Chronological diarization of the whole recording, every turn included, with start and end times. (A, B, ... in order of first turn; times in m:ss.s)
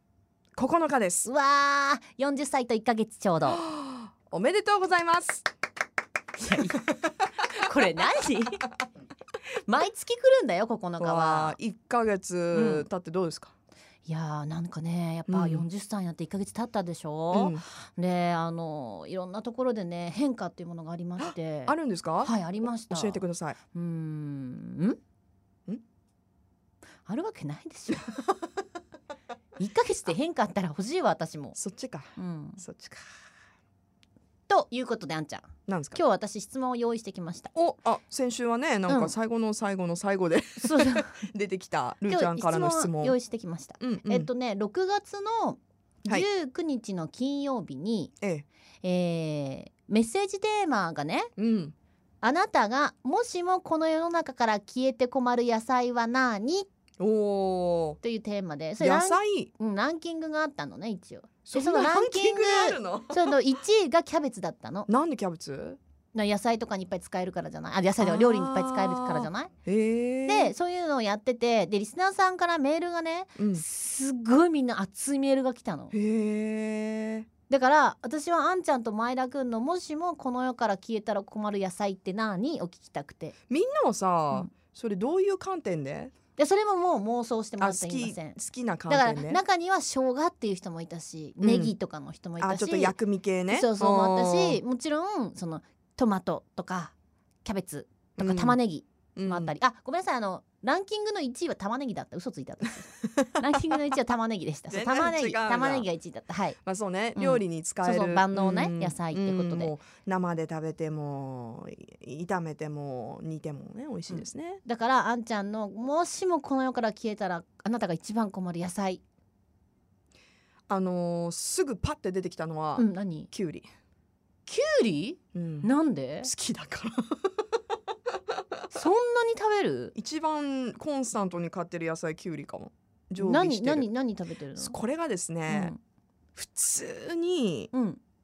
0:00.6-0:01.3 A
0:01.2-0:03.6 B
0:03.5-0:05.4 A
0:06.4-0:06.8 B
0:06.7-0:07.1 A
0:07.4-0:08.6 B
0:09.6-0:11.6 B
0:11.0-0:13.5 A
0:12.5-0:12.9 B
0:14.0-0:25.0 B
0:15.3-0:15.7 A
0:17.3-0:17.6 A
0:21.2-0:23.6 A
0:27.0-0:28.1 B
0:29.6-0:31.6 B
0:31.6-0:33.0 A
0:32.2-0:32.6 B
0:34.5-0:37.5 B
0:35.7-0:36.0 A
0:37.5-0:43.2 A
0:38.9-0:39.1 B
0:40.6-0:41.2 B
0:42.1-0:48.1 B
0:43.8-0:44.3 A
0:48.2-0:48.4 A
0:48.8-0:51.3 B
0:51.4-0:51.8 A
0:52.2-0:56.7 B
0:57.0-0:58.0 A
0:58.0-1:04.9 B
0:58.8-0:59.5 A
1:01.4-1:03.4 A
1:04.9-1:05.8 A
1:06.1-1:09.5 B
1:08.0-1:10.5 A
1:10.3-1:15.9 B
1:13.4-1:13.6 A
1:15.9-1:17.3 A
1:17.5-1:23.3 B
1:23.5-1:26.1 A
1:26.4-1:28.4 B
1:27.6-1:29.4 A
1:28.9-1:33.0 B
1:31.4-1:31.7 A
1:32.4-1:34.6 A
1:33.5-1:46.6 B
1:38.2-1:38.6 A
1:39.2-1:39.5 A
1:44.7-1:45.9 A
1:46.6-1:54.6 A
1:47.1-1:49.7 B
1:54.1-1:59.0 B
2:00.7-2:03.7 A
2:02.8-2:03.3 B
2:04.4-2:06.3 B
2:05.3-2:05.7 A
2:06.2-2:07.4 A
2:08.7-2:09.9 B
2:10.0-2:13.9 A
2:13.2-2:14.8 B
2:14.6-2:15.7 A
2:15.5-2:15.8 B
2:16.4-2:17.7 A
2:17.7-2:18.0 B